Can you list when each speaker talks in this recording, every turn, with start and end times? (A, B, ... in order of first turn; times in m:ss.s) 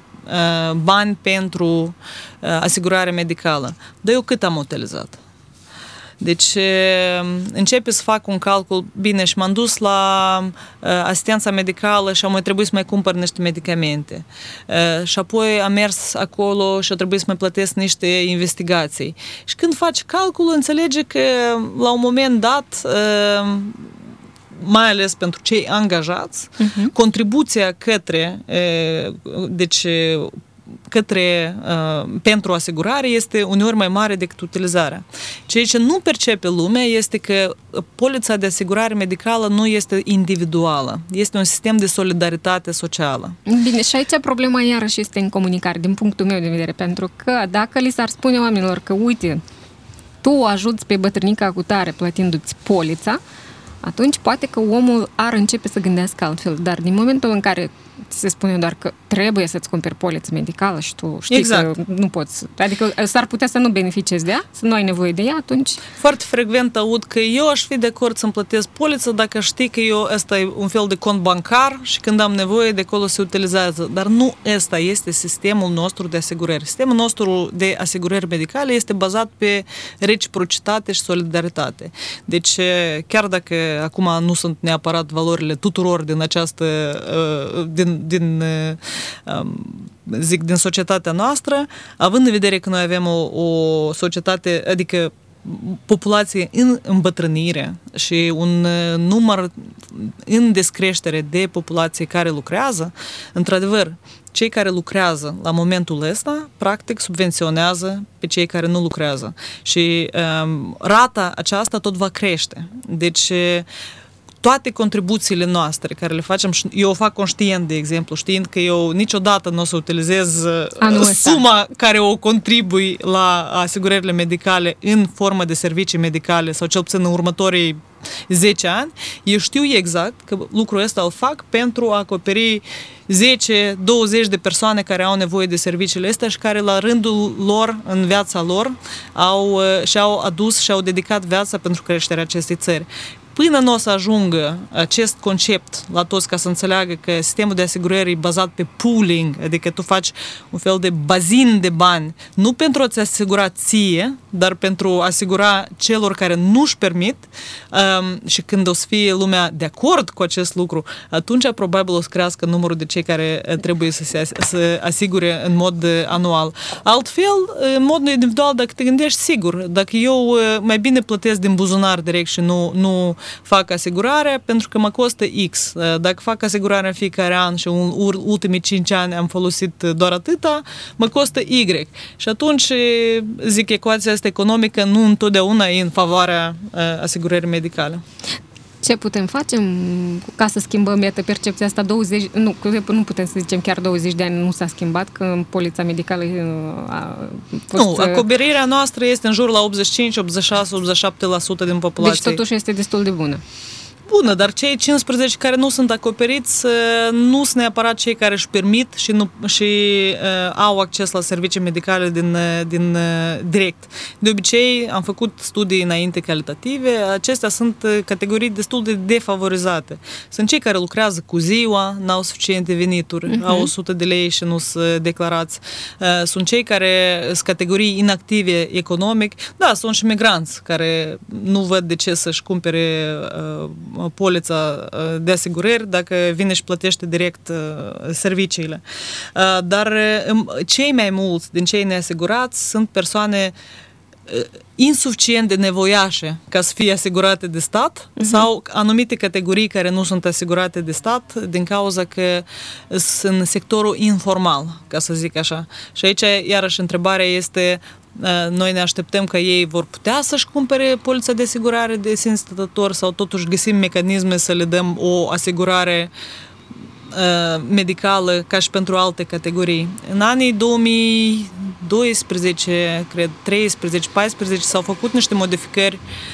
0:00.3-0:05.2 A
0:06.2-0:23.9 A
0:24.5-0:30.4 A
0:26.6-0:26.9 B
0:30.9-0:43.4 A
0:43.5-0:49.4 B
0:50.2-0:53.2 B
0:53.8-1:05.8 B
1:01.3-1:01.7 A
1:06.0-1:53.6 A
1:54.4-3:08.0 A
2:00.8-2:01.4 B
3:08.8-3:18.2 B
3:17.7-3:22.4 A
3:22.0-3:23.4 B
3:24.1-3:58.8 A
3:43.3-3:43.7 B
3:59.4-4:03.5 A
4:04.3-4:26.1 A
4:08.2-4:08.4 B
4:27.1-4:36.0 A